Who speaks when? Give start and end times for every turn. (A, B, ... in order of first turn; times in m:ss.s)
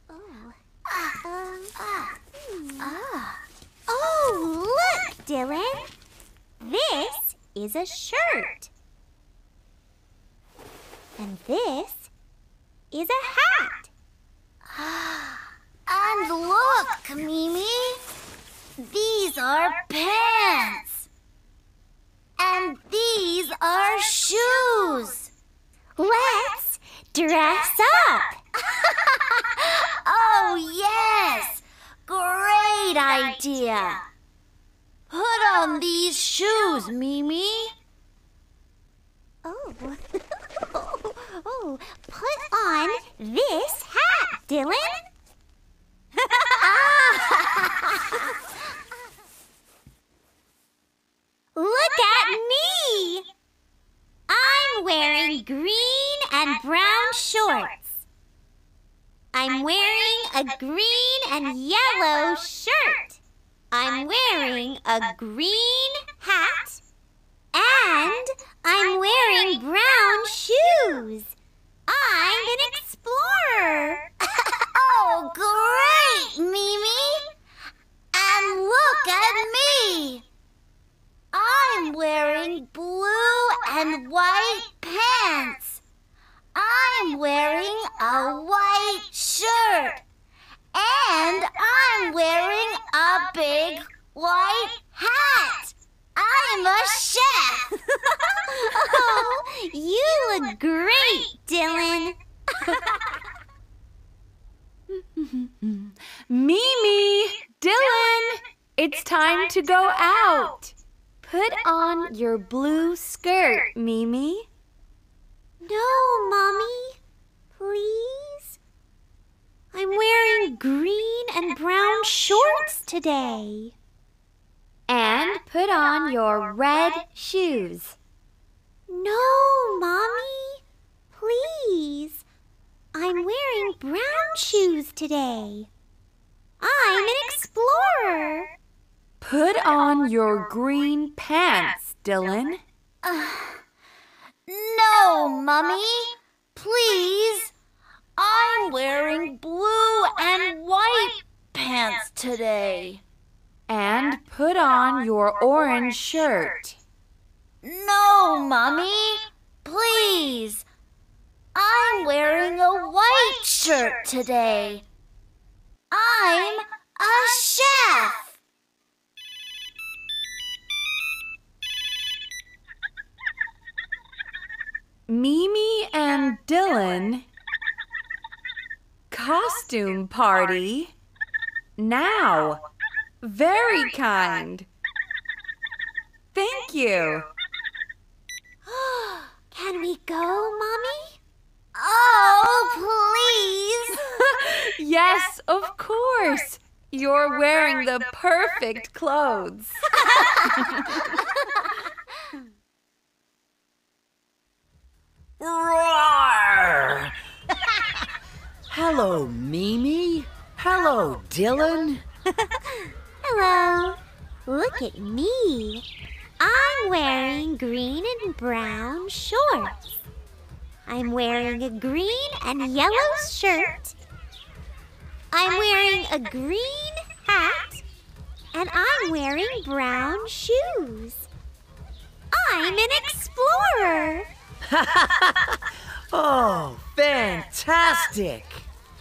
0:00.1-0:00.5 A
0:01.0-0:01.7 A
0:02.4-0:03.4 A
0:03.9-0:05.9 A
0:06.6-0:08.7 A
0:11.2-0:12.1 A
0:12.9-0:13.9 A
0:14.7-0:18.0 B
0:18.8-0:21.1 B
0:22.4-0:25.3 B
0:26.0-0:28.4 A
0:29.4-0:34.0 B
0:35.1-0:37.7 B
0:39.4-0:45.0 A
0:46.6-0:47.4 A
0:51.5-0:53.3 A
0:54.3-0:58.0 A
0:59.3-1:03.2 A
1:03.7-1:06.8 A
1:07.5-1:11.3 A
1:11.9-1:14.0 A
1:14.7-1:17.3 B
1:18.1-1:20.2 B
1:21.3-1:25.8 B
1:26.5-1:30.0 B
1:30.7-1:37.8 B
1:38.5-1:42.9 A
1:44.9-1:54.5 C
1:55.6-1:57.0 A
1:57.5-1:58.6 A
1:59.7-2:03.7 A
2:04.9-2:08.0 C
2:08.9-2:10.6 A
2:11.1-2:12.2 A
2:12.9-2:15.7 A
2:16.6-2:18.5 A
2:19.2-2:22.6 C
2:23.0-2:23.6 B
2:24.5-2:27.5 B
2:28.2-2:33.0 B
2:33.7-2:36.8 C
2:37.6-2:40.6 B
2:41.5-2:44.8 B
2:45.9-2:48.4 B
2:55.1-2:57.2 C
2:59.1-3:00.9 C
3:01.8-3:02.6 C
3:03.2-3:04.7 C
3:06.3-3:07.3 C
3:09.1-3:11.2 A
3:11.7-3:13.9 B
3:14.0-3:19.8 C
3:20.4-3:21.0 C
3:25.4-3:27.1 D
3:28.7-3:32.0 D
3:33.2-3:35.8 A
3:36.4-3:39.8 A
3:40.8-3:43.9 A
3:45.3-3:47.8 A
3:48.5-3:51.3 A
3:52.3-3:54.3 A
3:54.7-3:55.6 D
3:56.1-3:58.6 D